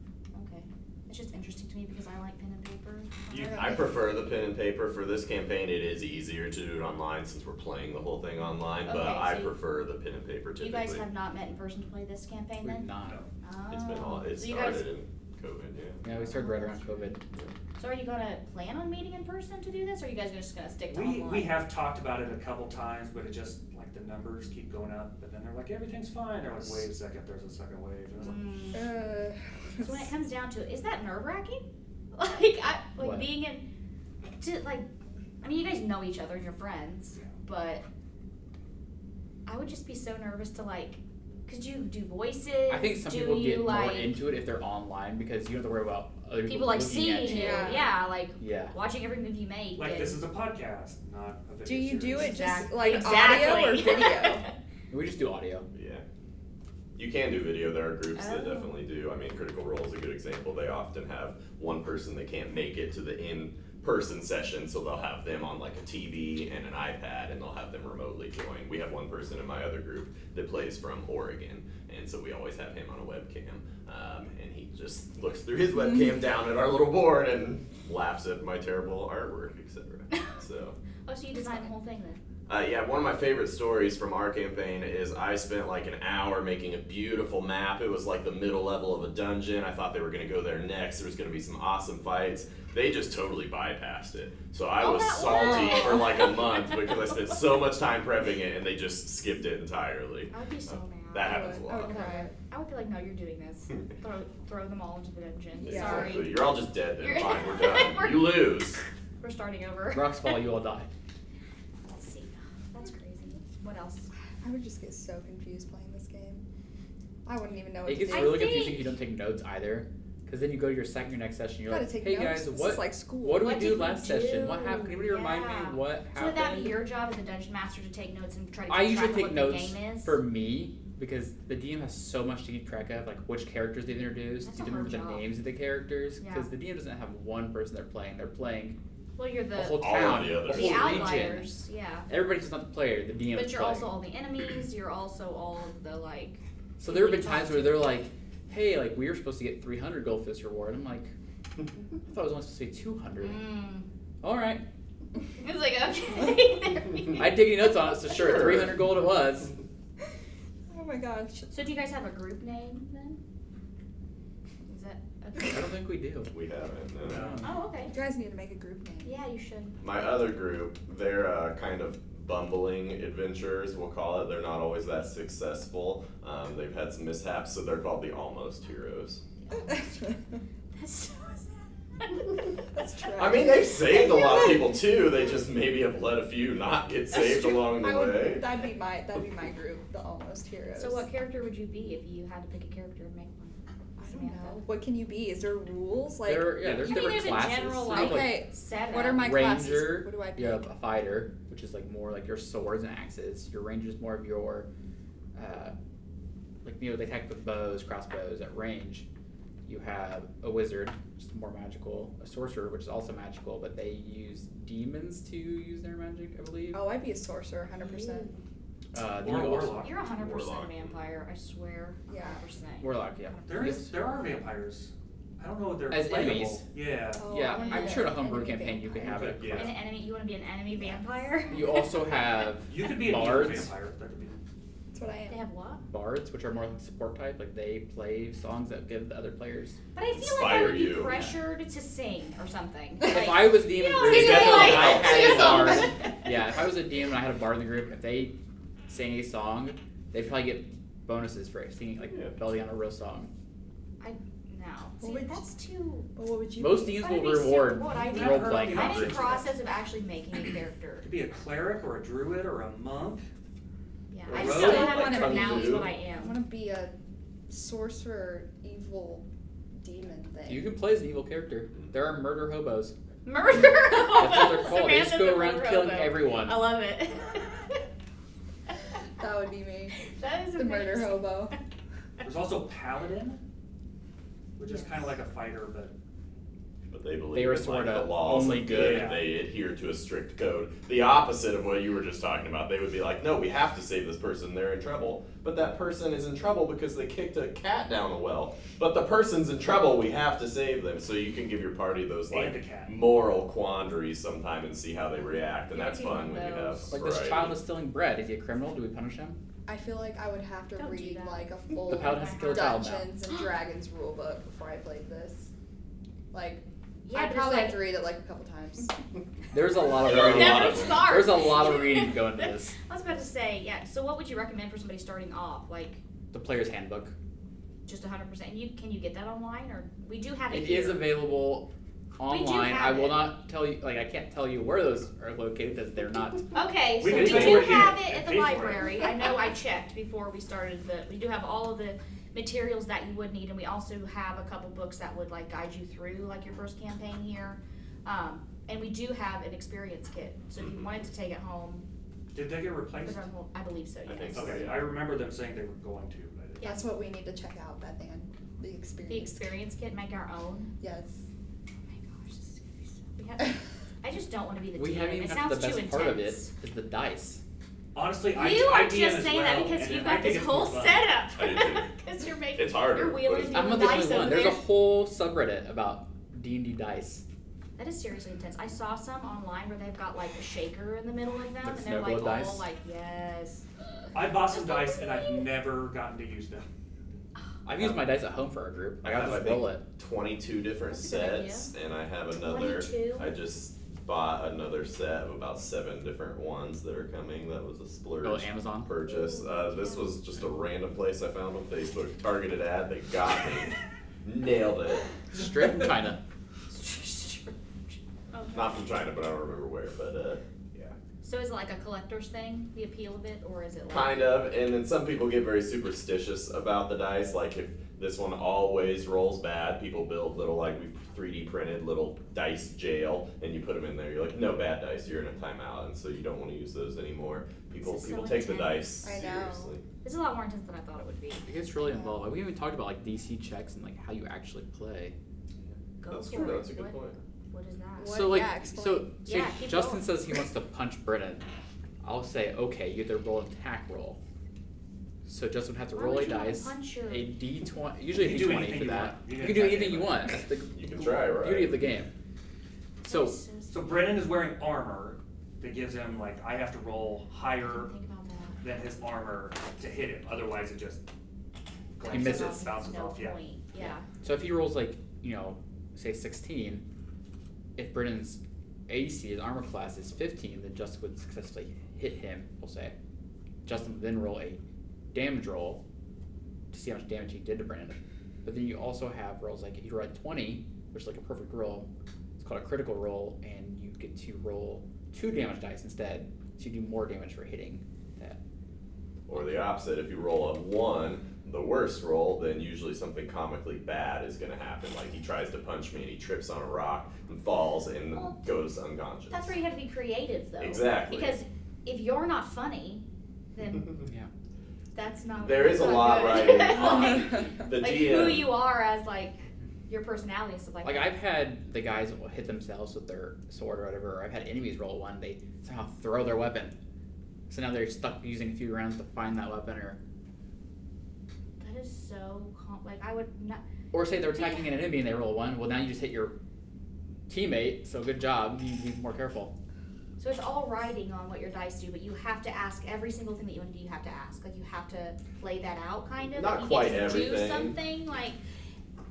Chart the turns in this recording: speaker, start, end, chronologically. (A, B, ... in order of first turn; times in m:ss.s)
0:00.3-0:03.6 A
0:03.3-0:03.6 B
0:03.3-0:03.9 C
0:03.5-0:11.0 D
0:08.8-0:09.5 A
0:10.6-0:12.9 A
0:12.6-0:13.2 E
0:13.4-0:14.9 A
0:13.7-0:16.0 D
0:16.0-0:17.2 E
0:16.1-0:17.1 A
0:17.8-0:21.6 A
0:20.9-0:28.4 B
0:28.2-0:29.0 A
0:28.7-0:30.1 C
0:29.8-0:33.6 A
0:33.0-0:33.3 E
0:34.4-0:34.9 A
0:35.4-0:37.8 A
0:39.5-0:44.2 A
0:42.7-0:48.8 E
0:46.5-0:50.2 A
0:47.2-0:48.0 C
0:49.8-0:52.3 B
0:51.6-0:54.5 C
0:52.1-0:54.5 A
0:53.0-0:53.4 B
0:54.9-0:55.6 E
0:55.7-0:56.0 D
0:57.0-1:20.8 D
0:58.1-0:58.7 A
1:20.1-1:20.4 A
1:21.1-1:22.2 A
1:22.5-1:42.0 D
1:34.8-1:37.0 A
1:40.3-1:50.4 A
1:41.2-1:42.3 C
1:45.5-1:46.2 C
1:45.6-1:48.8 D
1:49.9-1:50.9 E
1:51.8-1:54.1 A
1:54.4-1:56.4 C
1:57.2-1:58.5 C
1:57.8-2:06.8 E
1:58.1-1:58.9 A
2:01.7-2:03.5 C
2:03.4-2:10.2 A
2:08.7-2:18.8 E
2:14.4-2:15.3 A
2:16.2-2:16.5 A
2:19.2-2:22.1 A
2:19.5-2:21.5 E
2:19.6-2:21.2 D
2:22.1-2:24.0 E
2:23.3-2:27.9 A
2:26.8-2:31.1 E
2:32.1-2:33.5 E
2:33.2-2:33.9 A
2:34.2-2:34.6 E
2:35.4-2:37.5 A
2:37.2-2:39.5 E
2:38.1-2:38.9 D
2:40.7-2:41.5 C
2:41.5-2:43.2 A
2:44.7-2:45.6 A
2:45.4-2:46.3 E
2:46.3-2:47.3 D
2:47.0-2:47.5 E
2:47.1-2:47.4 B
2:47.4-2:48.0 A
2:47.9-2:49.1 C
2:49.0-2:49.8 A
2:49.8-2:59.2 D
2:59.4-3:00.2 A
3:00.7-3:02.4 A
3:02.7-3:04.6 C
3:03.2-3:08.5 D
3:07.2-3:11.1 C
3:10.8-3:14.6 A
3:14.0-3:17.1 C
3:16.2-3:18.4 E
3:16.6-3:19.4 A
3:17.9-3:20.6 C
3:19.1-3:24.7 E
3:25.4-3:25.8 E
3:26.6-3:29.1 E
3:29.6-3:36.9 E
3:36.7-3:38.3 C
3:37.8-3:38.4 A
3:38.9-3:39.9 E
3:39.2-3:40.0 B
3:39.8-3:42.9 A
3:40.0-3:41.1 D
3:42.1-3:42.4 C
3:42.8-3:44.0 E
3:43.5-3:47.3 B
3:45.9-3:46.6 E
3:47.2-3:49.4 C
3:47.2-3:49.8 E
3:47.4-3:48.1 A
3:49.0-3:49.7 B
3:49.5-3:51.7 A
3:51.5-3:53.7 E
3:52.7-3:54.4 B
3:54.9-3:55.4 C
3:55.3-3:55.8 A
3:55.8-3:59.8 E
4:00.0-4:06.3 A
4:00.1-4:01.1 D
4:01.1-4:01.4 E
4:03.0-4:08.4 E
4:04.0-4:05.6 D
4:04.3-4:06.1 C
4:08.9-4:13.3 E
4:14.0-4:16.1 A
4:15.0-4:15.5 C
4:16.1-4:17.0 C
4:16.6-4:19.4 E
4:17.0-4:21.1 A
4:17.8-4:19.5 B
4:21.0-4:23.3 B
4:24.1-4:26.4 A
4:24.3-4:25.3 B
4:24.3-4:26.9 C
4:25.3-4:25.9 D
4:27.5-4:30.7 C
4:30.5-4:33.0 E
4:33.2-4:37.8 A
4:33.9-4:36.7 E
4:39.2-4:40.0 C
4:40.0-4:41.4 A
4:40.5-4:41.5 C
4:42.2-4:43.4 B
4:44.6-4:45.9 B
4:46.9-5:07.6 D
4:47.3-4:49.2 E
4:48.7-4:49.2 B
5:02.3-5:03.0 B
5:05.7-5:06.9 A
5:06.9-5:09.4 E
5:09.7-5:15.5 C
5:10.8-5:12.7 A
5:11.9-5:13.1 E
5:16.3-5:18.9 C
5:17.0-5:17.8 A
5:19.5-5:22.8 E
5:20.0-5:26.0 A
5:20.0-5:21.1 D
5:26.3-5:27.1 E
5:27.8-5:31.2 A
5:30.5-5:38.0 E
5:32.3-5:33.3 A
5:36.5-5:51.8 A
5:37.0-5:39.0 B
5:50.6-5:50.9 D
5:52.3-5:53.3 B
5:53.0-5:54.7 A
5:54.0-5:55.0 D
5:54.3-5:56.6 B
5:56.6-5:56.9 A
5:56.6-5:59.5 C
5:59.1-6:00.7 A
6:00.8-6:01.2 C
6:01.9-6:06.5 A
6:04.8-6:07.4 E
6:07.9-6:11.1 B
6:08.3-6:14.6 A
6:11.4-6:11.9 D
6:12.5-6:14.2 D
6:13.5-6:17.2 E
6:17.8-6:23.7 A
6:21.6-6:22.7 E
6:24.1-6:26.7 B
6:24.5-6:25.5 A
6:27.6-6:29.8 E
6:29.0-6:45.1 D
6:30.9-6:31.7 A
6:32.4-6:33.3 A
6:38.2-6:38.9 E
6:39.0-6:40.2 A
6:45.3-6:46.2 E
6:46.7-6:48.8 A
6:48.5-6:51.0 D
6:51.2-6:54.2 A
6:53.9-7:09.8 D
7:07.8-7:08.9 A
7:09.0-7:09.7 C
7:10.0-7:12.1 A
7:11.4-7:15.2 E
7:15.6-7:17.2 D
7:16.0-7:18.2 A
7:18.0-7:19.1 C
7:18.1-7:21.4 E
7:19.2-7:20.1 A
7:22.0-7:24.2 E
7:25.2-7:32.1 E
7:25.9-7:27.3 A
7:28.1-7:30.3 B
7:30.7-7:31.8 D
7:33.0-7:34.2 A
7:33.0-7:33.4 E
7:33.7-7:37.9 B
7:37.6-7:38.6 A
7:38.6-7:41.0 B
7:42.0-7:43.4 B
7:42.0-7:44.0 A
7:42.0-7:42.6 E
7:44.2-7:46.8 E
7:47.8-7:52.9 E
7:53.6-7:54.6 E
7:55.1-7:55.8 E
7:56.7-8:01.9 E
8:02.4-8:08.4 E
8:09.3-8:19.6 D
8:19.3-8:23.0 A
8:20.6-8:21.4 D
8:23.5-8:24.0 A
8:24.9-8:31.1 A
8:25.4-8:28.5 D
8:30.8-8:36.8 E
8:37.5-8:40.0 E
8:41.6-8:43.6 A
8:43.9-8:46.3 E
8:47.3-8:49.5 E
8:50.2-8:58.4 A
8:56.3-8:57.8 D